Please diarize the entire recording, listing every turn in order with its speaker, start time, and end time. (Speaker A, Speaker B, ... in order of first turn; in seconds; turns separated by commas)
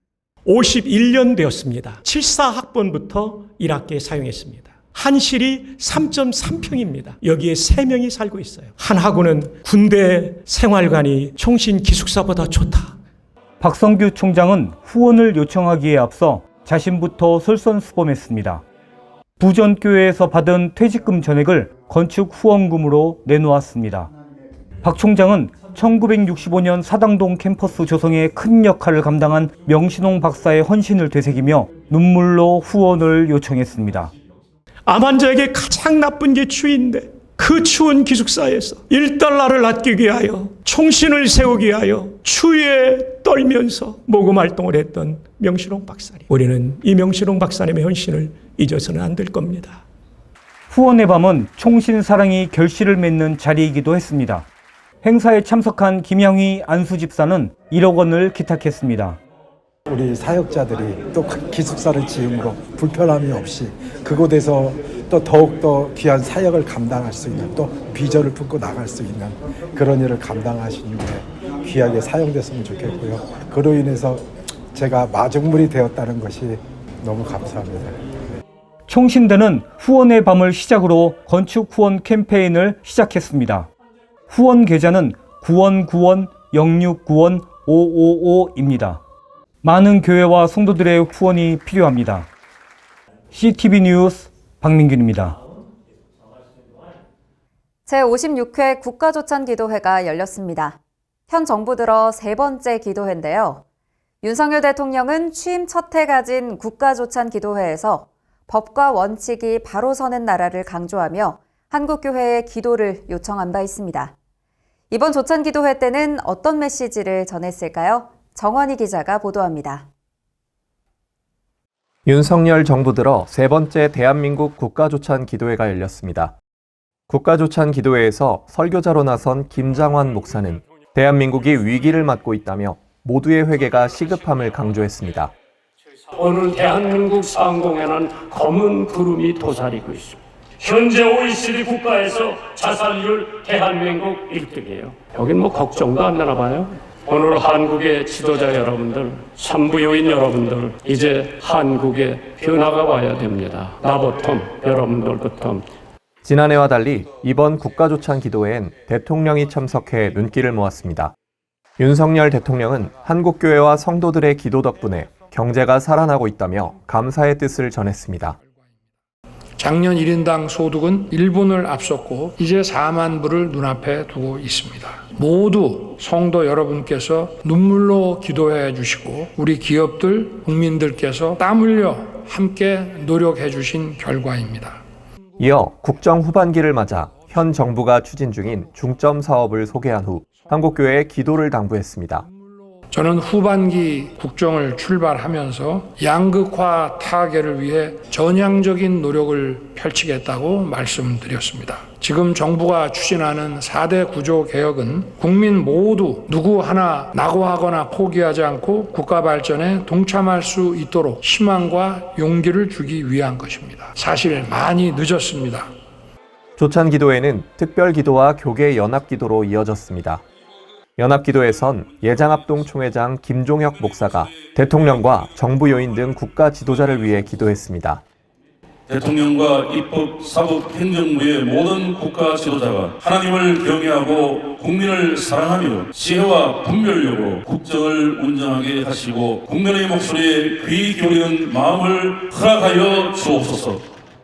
Speaker A: 0.5-13.0, Speaker B: 13.6-18.6, Speaker B: 19.4-24.1, Speaker B: 24.8-34.1, Speaker A: 34.9-49.8, Speaker B: 50.7-54.5, Speaker B: 55.0-59.2, Speaker C: 59.9-78.0, Speaker B: 78.9-83.7, Speaker B: 84.3-89.0, Speaker B: 89.6-92.3, Speaker B: 93.3-95.4, Speaker D: 97.9-100.8, Speaker D: 101.3-103.6, Speaker D: 104.2-114.1, Speaker D: 114.9-119.9, Speaker E: 122.1-126.3, Speaker E: 127.1-135.3, Speaker F: 136.2-155.7, Speaker E: 156.2-161.1, Speaker E: 161.8-168.4, Speaker G: 169.6-184.8, Speaker E: 185.4-192.3, Speaker G: 192.9-215.7, Speaker E: 216.6-220.2, Speaker E: 221.0-228.0, Speaker H: 228.9-243.8